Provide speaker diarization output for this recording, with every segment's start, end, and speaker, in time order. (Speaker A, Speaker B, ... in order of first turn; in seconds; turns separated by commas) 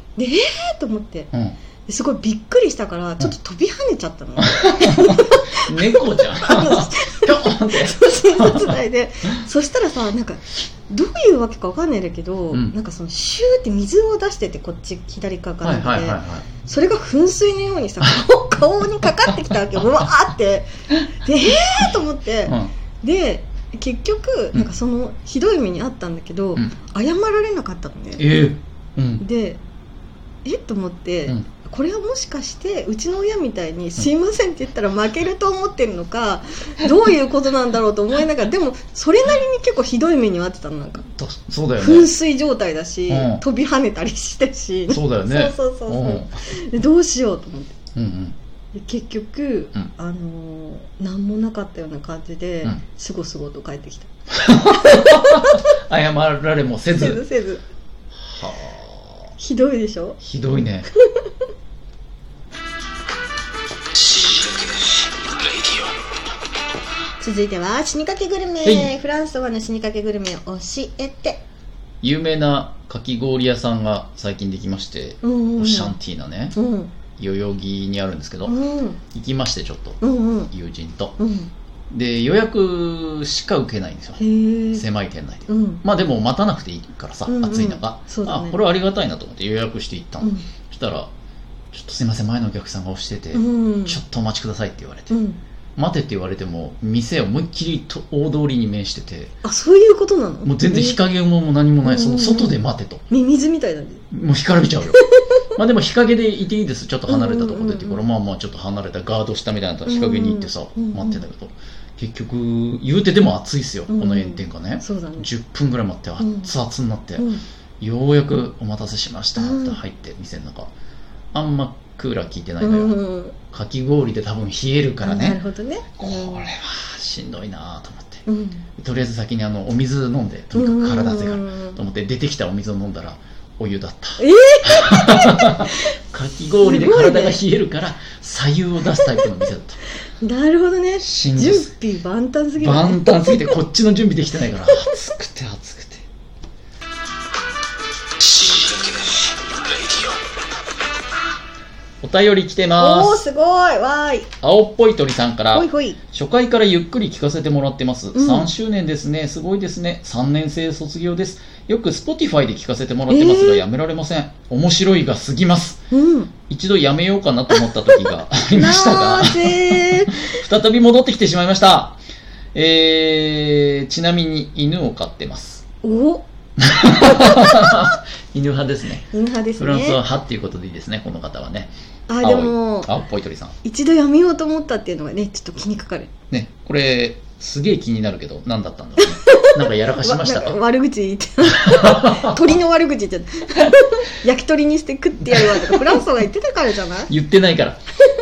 Speaker A: 0.1-1.3, Speaker B: 1.3-1.6, Speaker A: 1.9-28.2, Speaker B: 4.4-8.8, Speaker B: 12.5-12.8, Speaker B: 15.6-16.5, Speaker B: 22.4-22.7, Speaker B: 28.1-29.2, Speaker A: 29.2-29.6, Speaker A: 30.4-41.0, Speaker B: 41.0-42.1, Speaker A: 41.8-47.7, Speaker B: 43.1-43.4, Speaker B: 44.9-46.3, Speaker B: 47.9-48.4, Speaker A: 48.7-55.6, Speaker B: 54.3-57.2, Speaker A: 56.9-57.6, Speaker B: 58.2-59.2, Speaker A: 59.4-60.2, Speaker B: 60.2-60.9, Speaker A: 67.2-71.4, Speaker B: 68.6-69.0, Speaker B: 72.0-76.6, Speaker A: 75.2-76.0, Speaker A: 76.5-76.9, Speaker B: 77.2-78.5, Speaker A: 78.5-79.0, Speaker B: 79.1-81.2, Speaker A: 80.0-80.5, Speaker A: 81.2-81.5, Speaker B: 81.9-84.2, Speaker A: 84.2-84.8, Speaker B: 84.7-91.1, Speaker A: 85.5-85.8, Speaker A: 87.2-88.6, Speaker A: 90.2-90.5, Speaker B: 91.7-95.1, Speaker A: 93.3-94.0, Speaker A: 95.1-95.4, Speaker B: 95.8-99.3, Speaker A: 99.4-101.0, Speaker B: 100.4-103.0, Speaker A: 101.8-104.0, Speaker B: 104.1-105.0, Speaker A: 104.9-105.2, Speaker B: 105.5-117.3, Speaker A: 107.1-108.0, Speaker A: 109.8-111.2, Speaker A: 113.9-115.3, Speaker A: 116.2-116.5, Speaker A: 117.2-117.4, Speaker B: 117.8-120.7, Speaker A: 119.4-119.8, Speaker B: 121.3-123.0, Speaker A: 122.6-123.3, Speaker B: 123.5-125.4, Speaker A: 125.0-126.5, Speaker B: 126.0-128.2, Speaker A: 128.2-128.6, Speaker B: 128.8-139.8, Speaker A: 130.5-131.8, Speaker A: 134.2-135.9, Speaker A: 136.6-137.4, Speaker A: 140.2-143.5, Speaker B: 141.0-141.7, Speaker B: 142.6-146.1, Speaker B: 152.0-153.2, Speaker A: 152.8-154.3, Speaker B: 154.4-165.8, Speaker A: 155.5-156.0, Speaker A: 158.1-158.5, Speaker A: 163.1-163.6, Speaker A: 165.9-166.3, Speaker B: 166.5-172.0, Speaker A: 167.5-170.4, Speaker B: 172.5-175.6, Speaker A: 175.8-176.2, Speaker B: 176.6-179.0, Speaker A: 177.1-177.7, Speaker A: 179.1-180.0, Speaker B: 179.6-183.5, Speaker A: 182.1-182.9, Speaker A: 183.6-186.1, Speaker B: 186.3-190.6, Speaker A: 189.0-197.1, Speaker B: 191.5-192.5, Speaker B: 195.3-196.0, Speaker B: 197.1-197.8